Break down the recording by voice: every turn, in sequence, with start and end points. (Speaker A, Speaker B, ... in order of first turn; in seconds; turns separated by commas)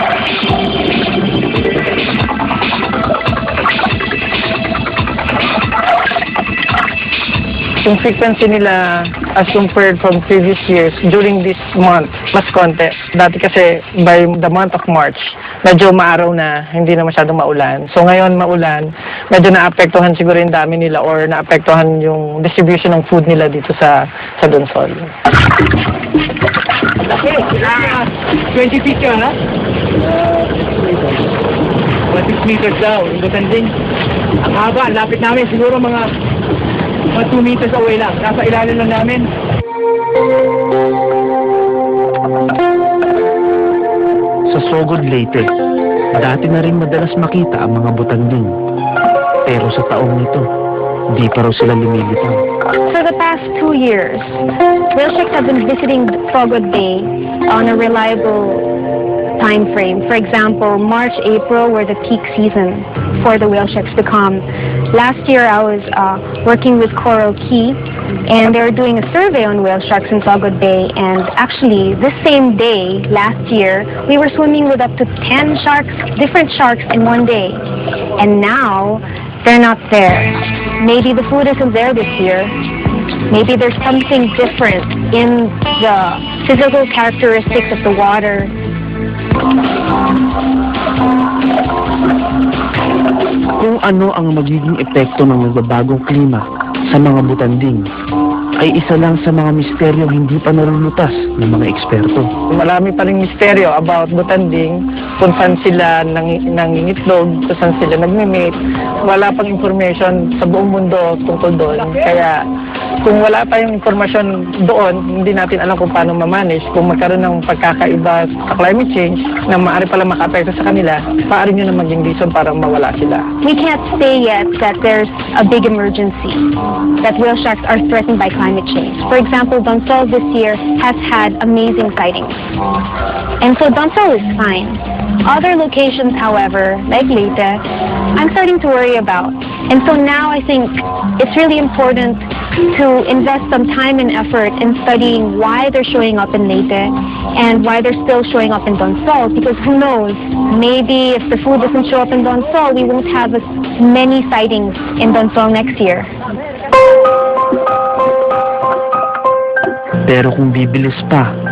Speaker A: 7.8-25.1, Speaker B: 27.2-29.4, Speaker B: 32.1-33.7, Speaker B: 34.4-36.1, Speaker B: 37.1-39.3, Speaker C: 44.5-45.5, Speaker C: 46.1-48.5, Speaker C: 49.5-50.5, Speaker C: 51.1-52.4, Speaker D: 52.9-54.4, Speaker D: 54.9-58.7, Speaker D: 59.4-77.7, Speaker D: 78.2-82.6, Speaker D: 83.3-88.5, Speaker C: 93.6-97.9, Speaker C: 98.6-102.3, Speaker A: 102.5-108.6, Speaker A: 109.1-112.4, Speaker A: 113.0-123.3, Speaker D: 123.4-126.5, Speaker D: 127.0-132.4, Speaker D: 133.4-156.1, Speaker C: 160.1-161.3